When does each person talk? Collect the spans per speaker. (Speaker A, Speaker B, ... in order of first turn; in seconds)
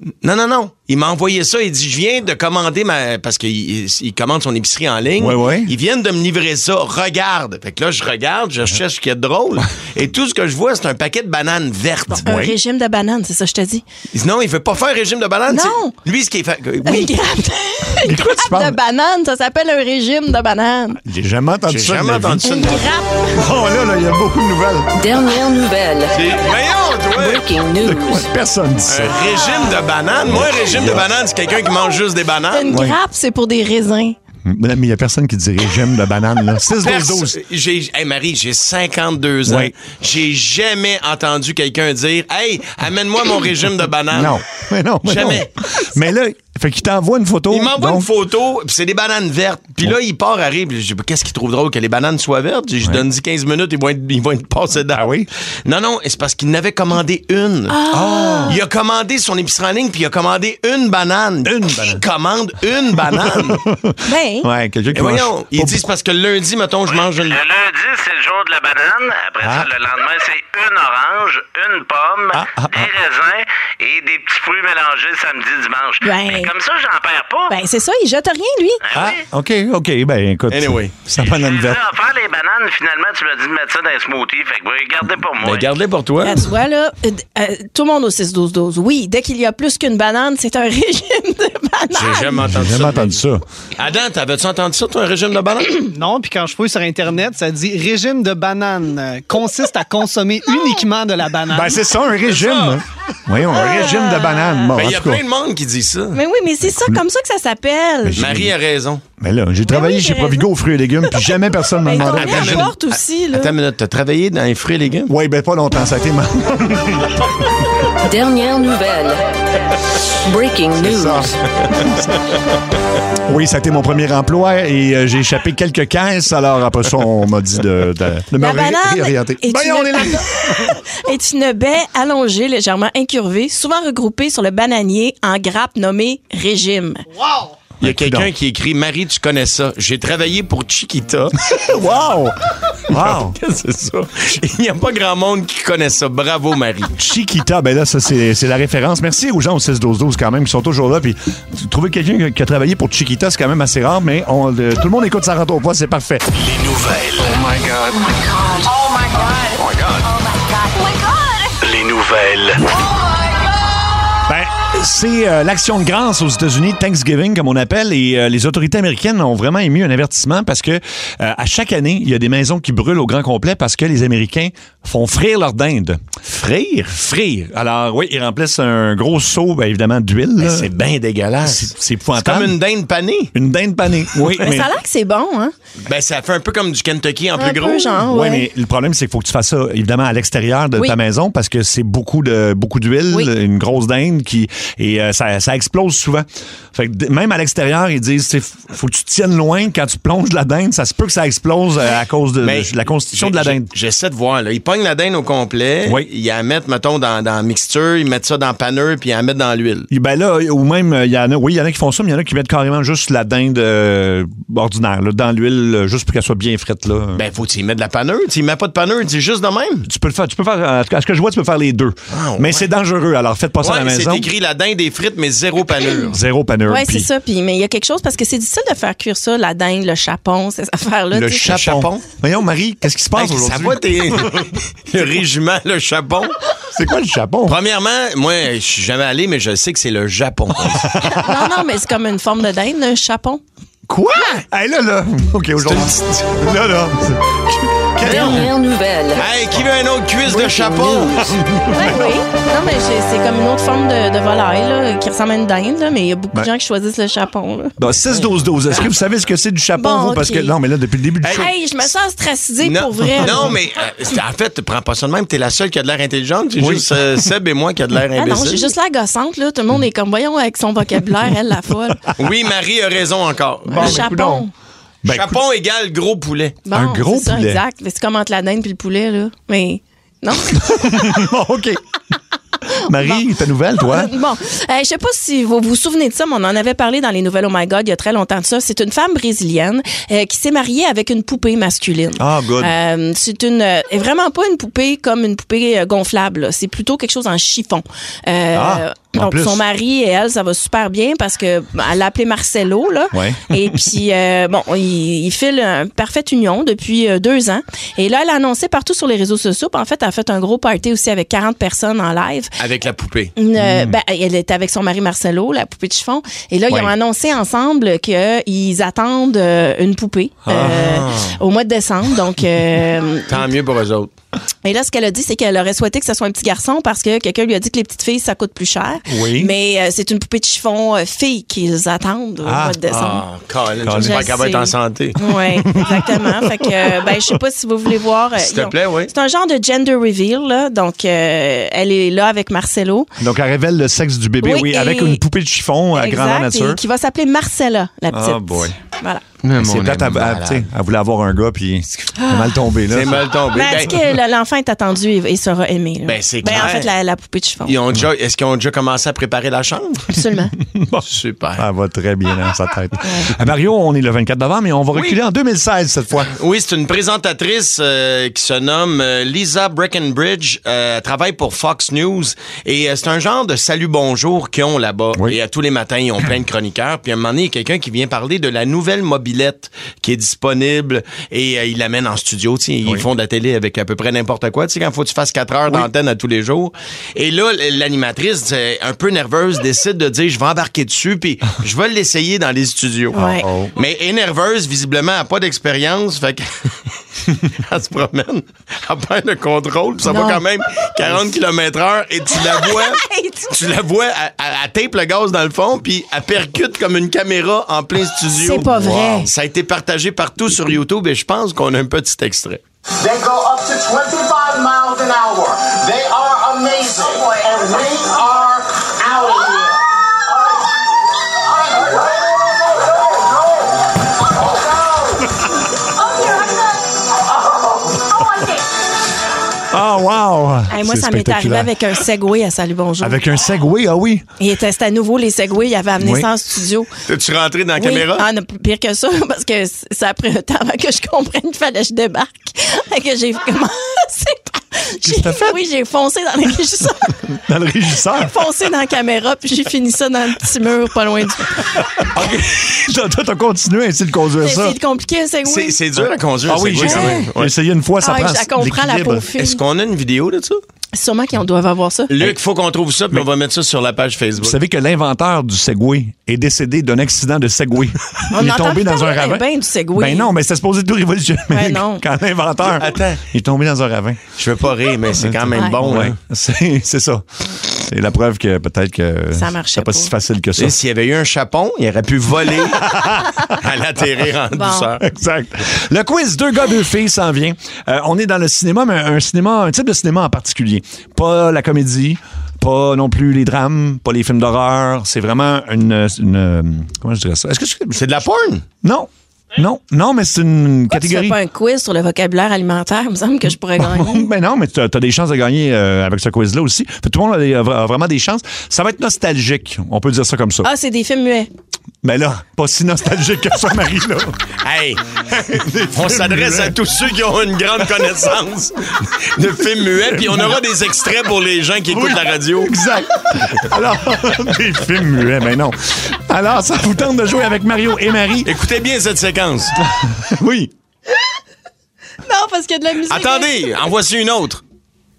Speaker A: 0.2-12.2, 14.1-17.1, 21.7-22.6, 26.1-27.4, 28.9-32.7, 36.8-44.4, 45.0-45.5, 47.5-55.1, 55.7-57.8, 58.5-63.6, 64.9-67.4, 80.5-81.0, 85.4-86.4, 92.0-93.2, 93.8-95.8, 104.8-106.2, 108.2-109.0, 112.1-112.8, 113.3-115.1, 137.8-141.3, 142.9-146.9, 176.4-176.8, 180.4-183.3, 185.9-188.0, 202.4-209.9, 217.2-219.8, 222.1-222.7, 223.6-226.2, 231.4-232.0, 233.2-236.3, 237.5-240.9, 245.6-246.4, 248.0-248.5, 249.2-251.3, 262.6-268.7, 272.2-274.1, 275.1-276.6, 312.6-313.3, 320.6-321.4, 323.3-324.1, 332.9-335.2, 338.4-339.1, 349.4-350.7, 352.9-354.0, 356.1-356.9, 357.7-360.1, 361.0-361.6, 366.3-393.2, 393.8-396.7, 397.3-412.6, 437.1-438.2, 455.4-457.5, 459.4-460.6, 462.1-464.6, 472.8-473.2, 474.4-476.2, 480.6-482.9, 483.5-485.0, 497.9-498.6, 514.6-515.0, 515.9-518.8, 519.4-522.7, 528.5-529.8, 533.1-534.6
Speaker B: 5.2-5.7, 12.2-12.6, 18.0-18.8, 21.1-22.8, 23.4-24.9, 27.8-29.2, 30.3-31.1, 32.7-33.0, 34.5-37.4, 39.5-39.7, 44.1-48.1, 54.9-55.3, 57.9-58.6, 61.5-62.0, 63.1-65.8, 69.4-69.7, 72.3-72.9, 78.9-81.8, 92.4-93.4, 101.5-105.2, 108.0-108.5, 109.2-112.7, 115.1-117.0, 120.8-121.3, 123.3-130.2, 137.8-138.3, 141.5-142.3, 142.9-143.4, 147.0-156.3, 164.3-180.7, 181.4-182.5, 183.3-184.7, 188.0-203.7, 209.9-217.2, 219.9-224.3, 226.1-227.1, 231.1-234.3, 236.7-237.6, 240.7-241.4, 243.9-248.5, 251.2-252.2, 257.8-261.5, 266.6-267.0, 273.7-274.4, 275.0-275.4, 276.7-277.6, 280.5-281.8, 282.8-284.1, 292.2-292.7, 298.5-299.6, 303.1-303.7, 313.6-314.0, 320.5-320.9, 329.1-329.5, 332.4-332.8, 333.8-334.3, 335.7-336.7, 343.2-346.8, 348.1-348.7, 349.6-353.2, 360.7-361.1, 361.6-366.3, 393.2-393.7, 429.7-431.7, 433.0-434.3, 436.0-436.3, 445.0-445.6, 447.3-448.3, 452.0-454.8, 456.5-459.3, 464.4-469.4, 469.9-474.2, 475.2-477.2, 477.8-480.7, 482.8-483.4, 485.0-498.2, 498.8-501.4, 503.8-510.7, 512.0-514.4, 515.3-516.8, 520.1-520.5, 521.9-528.5, 529.9-530.7
Speaker C: 12.1-13.8, 15.5-15.9, 16.9-21.0, 22.4-23.3, 32.5-34.2, 57.7-58.6, 64.1-64.5, 76.0-76.5, 77.5-78.8, 86.2-92.4, 103.5-104.8, 106.1-108.2, 109.7-110.5, 111.8-113.5, 128.4-137.0, 184.4-185.6, 187.4-188.5, 226.7-231.5, 241.0-243.4, 251.7-257.7, 259.8-260.5, 261.3-263.5, 268.2-272.0, 273.7-274.5, 276.7-281.1, 283.8-312.5, 313.4-323.3, 324.6-333.2, 334.0-343.1, 344.4-345.2, 345.9-349.2, 352.2-352.6, 353.5-357.8, 360.1-360.5, 363.0-363.3, 393.1-393.5, 400.1-400.4, 402.4-403.5, 408.3-409.3, 430.7-433.2, 434.4-436.9, 437.8-447.1, 448.2-451.5, 454.4-455.7, 456.8-457.3, 458.0-459.6, 460.9-462.1, 468.3-470.3, 471.5-472.0, 479.3-480.1, 484.5-484.9, 500.9-504.3, 510.6-511.5, 532.3-533.7
Speaker D: 25.0-26.3, 27.1-28.3, 118.1-119.2, 120.2-121.3, 248.0-249.3, 250.3-251.3
Speaker E: 66.9-77.5, 78.9-79.2, 81.2-85.7
Speaker F: 95.9-101.8
Speaker G: 156.4-157.5, 159.5-160.1, 161.6-162.7
Speaker H: 413.0-419.7, 421.5-421.9